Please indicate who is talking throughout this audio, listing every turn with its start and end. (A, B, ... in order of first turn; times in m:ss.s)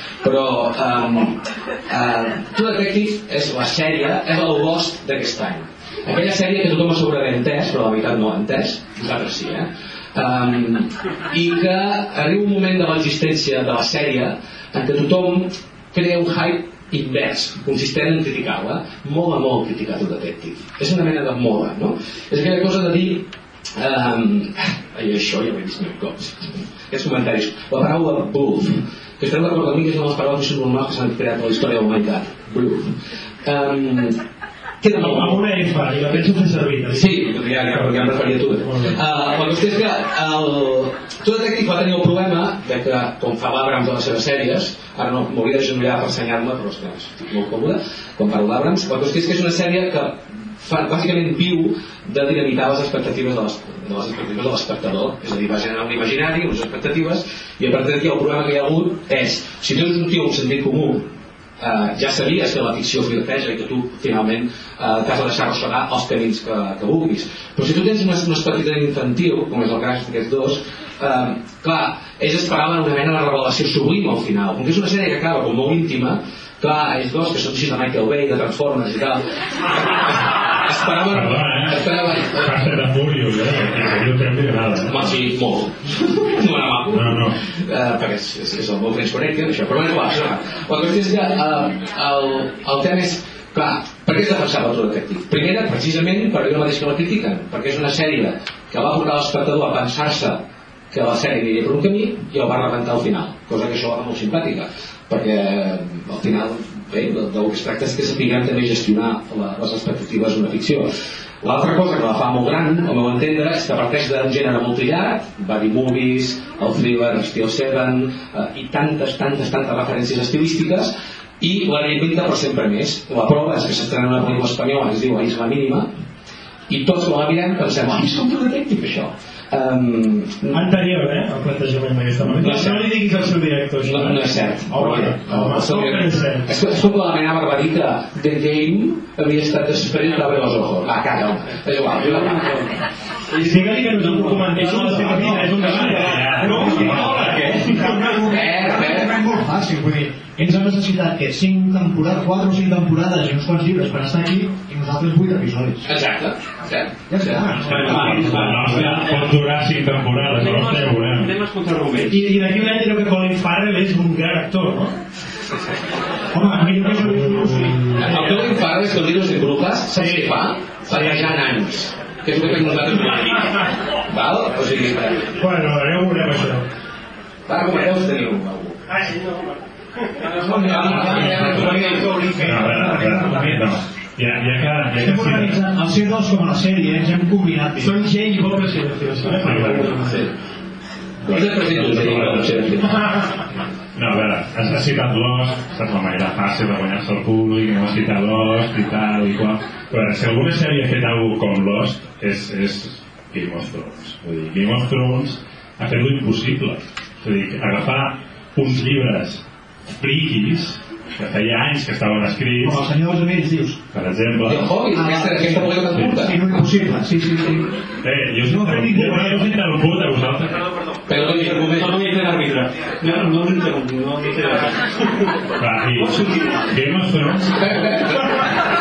0:00.2-0:01.4 A
0:01.9-0:23.2 A
0:23.8-0:34.2 A
0:34.8-0:35.5 A
0:35.0-0:37.1 B
0:36.9-1:22.5 A
0:37.7-0:38.0 B
0:38.6-0:39.0 B
1:21.0-1:21.8 C
1:22.3-1:25.0 C
1:24.9-1:40.4 A
1:26.9-1:27.4 C
1:40.9-2:05.9 A
2:06.7-2:10.7 A
2:10.5-2:16.5 B
2:12.3-2:12.9 A
2:13.8-2:22.4 A
2:21.9-2:22.8 D
2:23.3-2:27.5 D
2:23.4-2:28.2 B
2:24.6-2:35.9 E
2:25.6-2:27.7 C
2:28.1-2:29.1 A
2:35.8-2:38.0 A
2:37.1-2:39.0 E
2:37.6-2:41.3 C
2:37.6-2:39.3 D
2:40.2-2:42.2 D
2:42.1-2:44.9 B
2:46.3-2:48.4 E
2:46.4-2:48.1 B
2:48.0-2:53.5 A
2:49.9-2:50.3 B
2:50.9-2:51.3 B
2:52.4-2:53.6 B
2:54.1-2:55.3 A
2:55.4-2:56.7 B
2:57.5-2:58.8 A
2:58.9-3:02.6 B
3:00.3-3:03.8 E
3:00.4-3:02.1 A
3:00.6-3:01.0 D
3:01.0-3:05.6 C
3:05.0-3:08.0 E
3:07.8-3:10.2 B
3:09.4-3:10.1 C
3:10.0-3:10.3 A
3:11.3-3:13.0 C
3:11.3-3:12.9 A
3:13.9-3:32.8 C
3:32.6-3:33.8 E
3:33.9-3:34.8 C
3:34.4-3:36.4 A
3:34.9-3:37.7 E
3:35.8-3:36.1 C
3:38.0-3:40.6 C
3:38.4-3:39.5 E
3:41.1-3:42.0 A
3:41.2-3:45.3 D
3:45.6-3:47.6 C
3:46.0-3:46.7 D
3:47.5-3:48.5 A